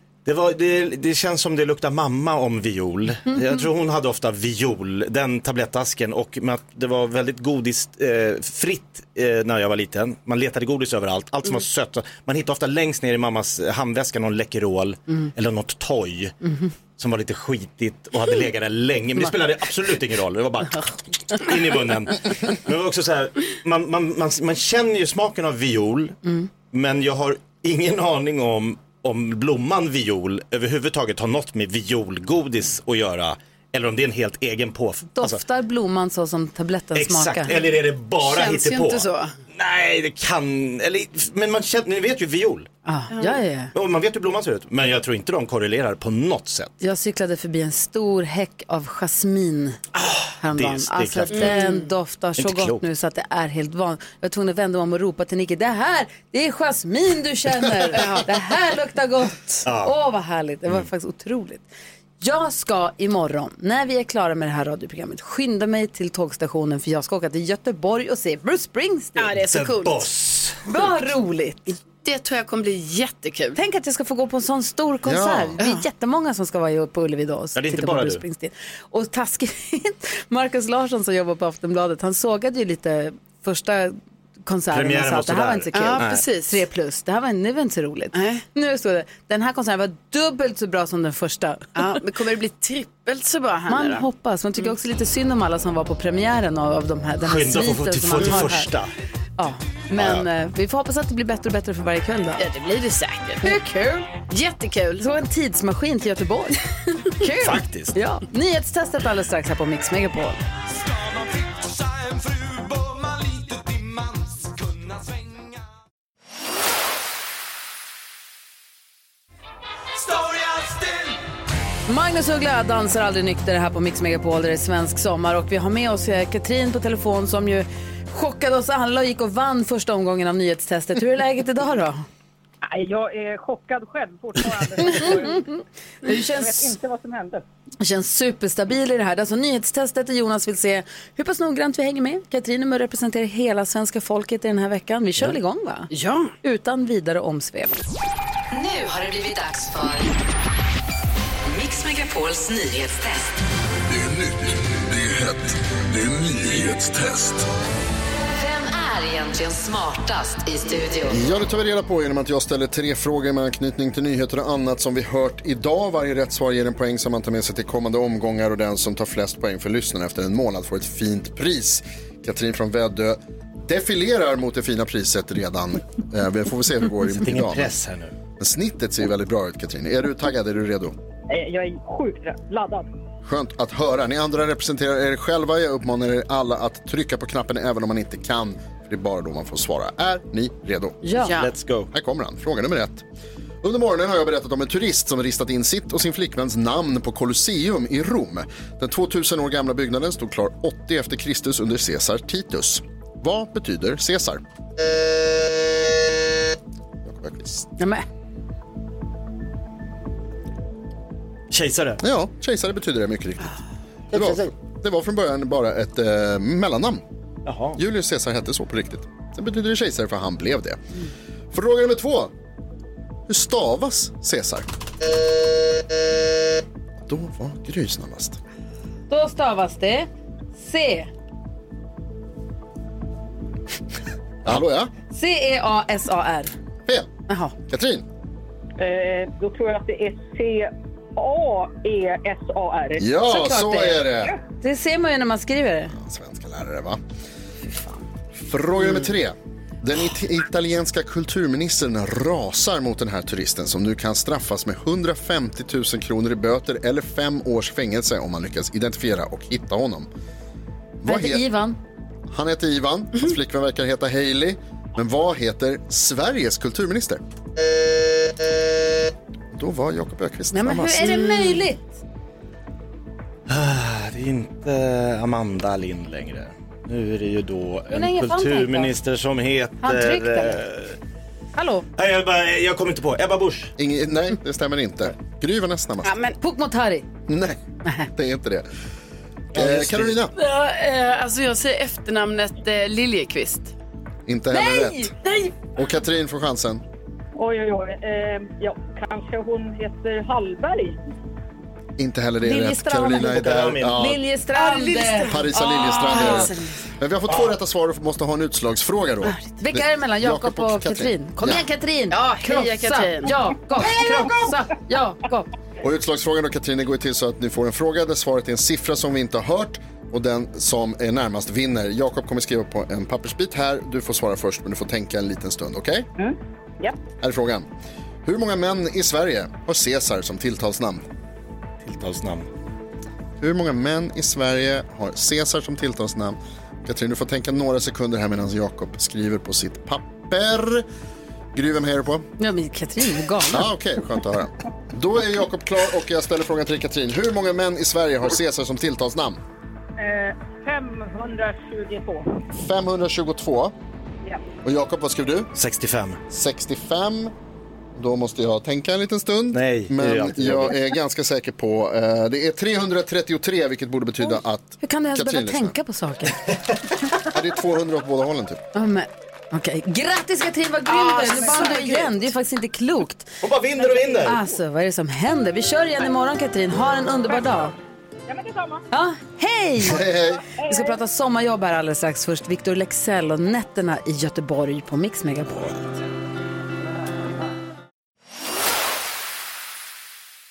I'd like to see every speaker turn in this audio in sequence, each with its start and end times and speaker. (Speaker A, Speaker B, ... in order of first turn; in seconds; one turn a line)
Speaker A: 0.2-16.3
Speaker A: 17.0-26.2
Speaker A: 26.7-35.4
Speaker B: 35.1-37.5
Speaker A: 36.9-42.7
Speaker C: 37.6-39.3
Speaker B: 42.9-43.7
Speaker C: 43.1-43.4
Speaker A: 43.7-46.7
Speaker B: 46.8-49.8
Speaker B: 50.4-61.6
Speaker A: 50.5-51.6
Speaker C: 51.3-51.9
Speaker A: 52.4-52.8
Speaker C: 57.9-58.3
Speaker A: 59.6-59.9
Speaker B: 62.2-69.3
Speaker C: 69.2-70.1
Speaker A: 69.3-70.7
Speaker B: 70.7-71.8
Speaker C: 72.0-73.6
Speaker B: 73.5-92.0
Speaker D: 75.0-75.6
Speaker A: 77.5-78.2
Speaker A: 84.7-86.2
Speaker C: 85.7-86.6
Speaker C: 88.1-88.4
Speaker C: 91.8-94.0
Speaker B: 93.7-98.7
Speaker A: 97.2-98.9
Speaker B: 99.4-102.4
Speaker A: 99.9-100.2
Speaker C: 102.4-103.5
Speaker B: 103.4-104.1
Speaker C: 104.3-105.0
Speaker B: 105.0-110.4
Speaker A: 107.4-107.9
Speaker B: 121.9-132.0
Speaker E: 132.6-137.4
Speaker B: 136.0-136.7
Speaker B: 137.8-145.9
Speaker C: 145.9-146.3
Speaker B: 146.4-147.8
Speaker F: 148.5-150.1
Speaker F: 151.5-153.2
Speaker G: 153.9-157.4
Speaker F: 158.3-161.2
Speaker D: 161.1-177.7
Speaker A: 177.2-178.1
Speaker D: 178.4-180.9
Speaker E: 181.3-182.9
Speaker D: 183.2-191.1
Speaker B: 191.0-191.3
Speaker C: 191.2-191.5
Speaker A: 191.4-191.9
Speaker D: 191.9-193.0
Speaker D: 193.6-204.4
Speaker D: 207.0-207.7
Speaker B: 207.8-208.0
Speaker A: 211.5-212.0
Speaker D: 212.0-213.6
Speaker D: 214.1-217.0
Speaker A: 217.4-217.8
Speaker D: 217.7-220.8
Speaker D: 221.5-222.3
Speaker D: 223.3-224.7
Speaker D: 227.0-228.4
Speaker B: 229.1-231.1
Speaker D: 234.4-234.9
Speaker B: 235.1-236.5
Speaker B: 237.3-237.5
Speaker D: 237.6-238.0
Speaker E: 238.8-243.0
Speaker D: 243.0-244.3
Speaker B: 243.2-244.1
Speaker B: 244.6-245.9
Speaker D: 245.9-247.0
Speaker D: 248.3-260.1
Speaker D: 261.0-261.4
Speaker B: 261.1-261.8
Speaker D: 262.3-267.2
Speaker D: 269.5-271.2
Speaker B: 270.5-272.0
Speaker C: 271.1-271.6
Speaker A: 273.5-280.9
Speaker B: 277.9-278.9
Speaker B: 279.8-280.6
Speaker B: 281.6-281.8
Speaker A: 281.9-283.7
Speaker D: 283.8-286.2
Speaker C: 286.0-286.4
Speaker B: 286.4-287.1
Speaker D: 287.3-287.6
Speaker D: 288.1-288.6
Speaker A: 289.5-290.2
Speaker D: 289.5-290.3
Speaker C: 290.4-293.7
Speaker D: 294.3-295.1
Speaker B: 294.5-295.5
Speaker D: 295.8-296.8
Speaker E: 297.4-301.0
Speaker D: 302.0-304.2
Speaker B: 302.4-306.5
Speaker A: 303.3-304.0
Speaker C: 304.5-306.7
Speaker D: 305.2-311.6
Speaker A: 307.3-307.5
Speaker B: 309.6-315.5
Speaker C: 312.1-314.3
Speaker D: 315.8-326.1
Speaker E: 326.2-327.0
Speaker D: 327.2-327.7
Speaker D: 328.2-331.0
Speaker A: 331.8-332.5
Speaker D: 333.4-340.9
Speaker D: 341.5-342.2
Speaker B: 342.4-343.7
Speaker D: 343.5-349.4
Speaker E: 350.0-352.4
Speaker D: 352.5-353.7
Speaker D: 354.6-355.5
Speaker A: 355.5-356.2
Speaker D: 356.3-357.3
Speaker D: 357.9-365.7
Speaker A: 359.5-360.8
Speaker B: 364.8-366.4
Speaker D: 367.2-368.6
Speaker B: 368.7-373.3
Speaker C: 370.9-372.1
Speaker A: 373.4-374.4
Speaker B: 374.2-377.7
Speaker E: 378.3-378.9
Speaker B: 378.9-380.0
Speaker D: 379.8-380.4
Speaker E: 380.6-381.0
Speaker B: 380.6-385.8